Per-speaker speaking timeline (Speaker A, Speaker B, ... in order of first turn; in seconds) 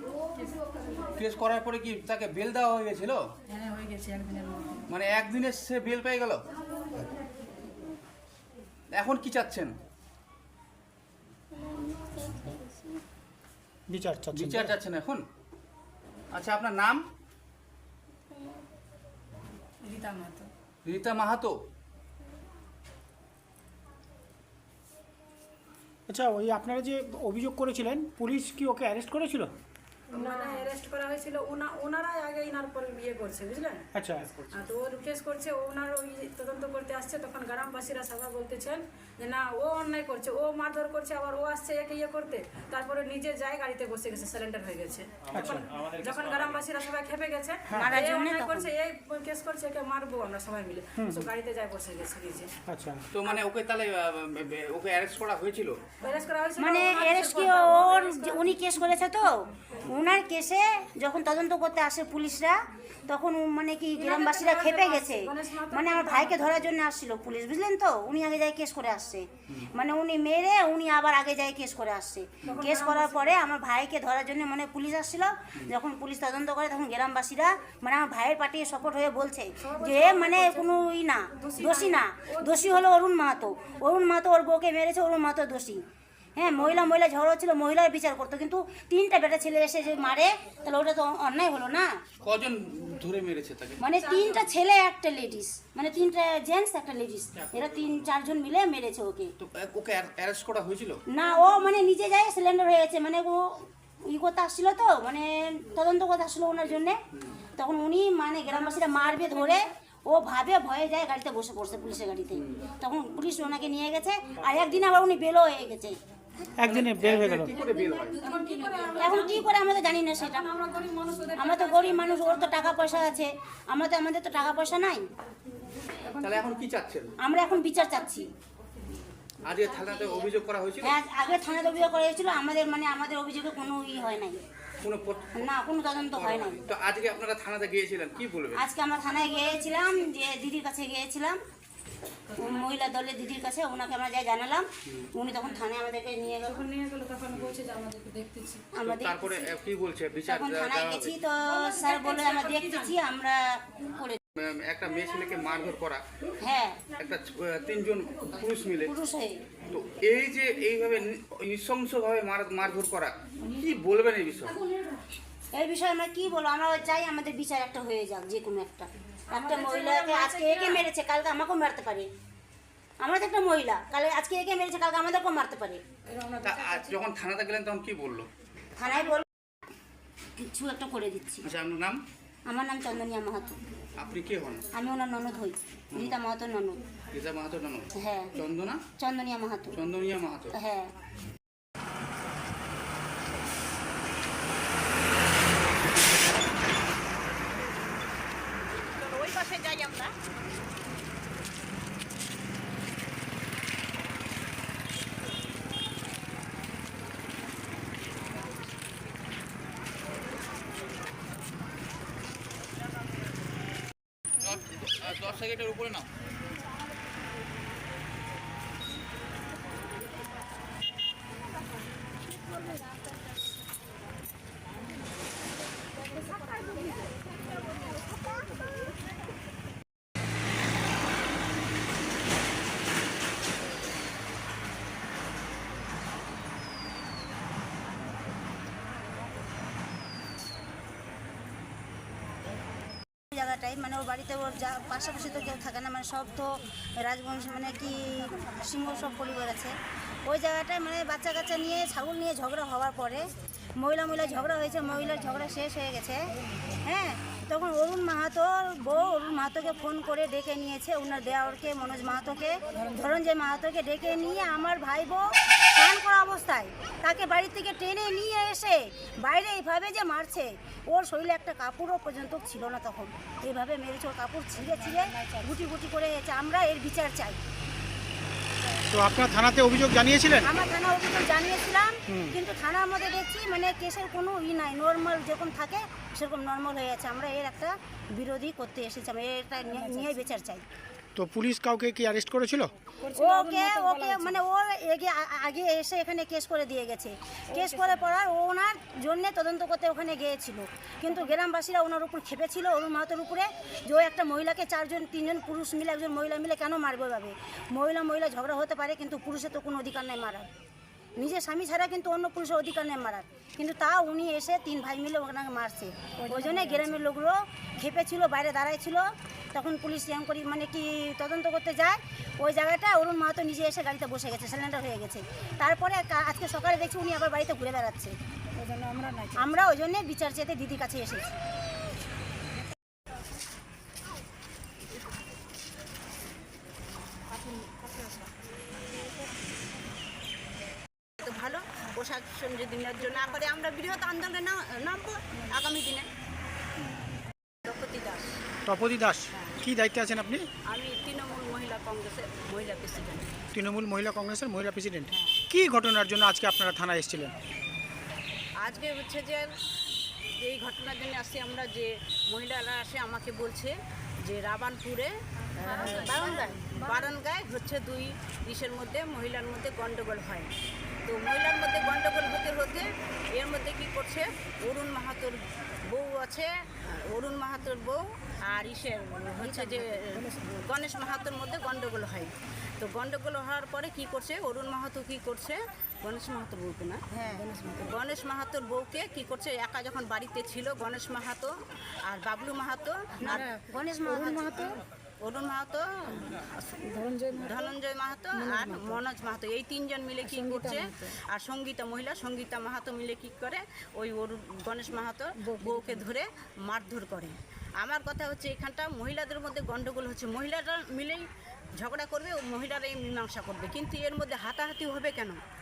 Speaker A: 1.2-3.3, 4.9-6.5, 8.9-9.8, 14.3-15.3, 16.3-17.0, 20.9-21.6, 53.1-55.8, 92.2-93.9, 97.4-98.0, 99.4-101.0, 116.7-118.8, 126.1-127.1, 129.4-130.9, 134.8-135.5, 136.1-138.6, 147.3-147.6, 148.8-151.2, 154.4-156.0, 157.0-158.9, 159.7-164.6, 176.4-178.3, 181.4-182.0, 184.0-184.6, 187.1-188.8, 189.7-190.5, 214.4-216.1
Speaker B: 3.6-4.8, 19.8-20.5, 30.1-33.8, 34.5-52.5, 56.0-58.5, 64.0-66.5, 72.5-73.3, 79.6-80.7, 81.4-82.8, 94.0-94.4, 118.2-119.5, 120.7-122.0, 146.5-148.7, 151.5-152.9, 169.3-170.8, 176.2-176.5, 274.9-275.5, 289.8-290.2, 293.0-294.4, 297.5-298.0, 316.2-317.0, 328.6-329.5, 365.9-366.6, 387.4-387.9, 393.2-394.8, 396.9-397.7, 398.3-399.0, 400.2-401.1, 405.4-406.1
Speaker C: 13.9-14.8, 26.1-29.5, 34.0-34.3, 45.3-45.7, 47.7-48.0, 51.0-51.3, 52.7-53.0, 116.6-117.5, 278.9-280.5, 282.1-282.4, 291.1-292.7, 348.7-350.4, 353.5-357.3
Speaker D: 47.7-48.7, 56.6-85.8, 86.4-92.0, 93.8-99.3, 101.1-107.0, 107.6-116.0, 118.9-125.1, 127.2-128.3, 130.8-134.4, 135.3-136.6, 138.6-141.4, 142.4-146.7, 148.7-149.3, 150.3-154.2, 156.4-156.8, 158.8-159.4, 165.5-172.1, 173.0-175.8, 178.8-179.3, 180.4-181.5, 182.5-183.6, 184.7-186.8, 187.9-188.3, 189.0-189.8, 190.5-190.9, 243.3-256.3, 256.8-277.4, 280.4-290.6, 293.1-310.5, 311.2-328.2, 329.4-331.4, 365.8-366.7, 379.4-379.9, 387.1-387.5, 393.3-394.6
Speaker E: 198.9-200.1, 341.2-346.1, 347.6-348.4, 350.7-353.3, 355.1-355.4, 358.6-359.4, 360.4-363.7, 364.3-365.1, 365.6-370.5, 371.1-372.9, 373.4-375.4, 375.9-376.5, 377.1-387.0, 387.8-391.5, 392.1-393.5, 394.1-396.8, 397.4-411.2, 411.8-415.4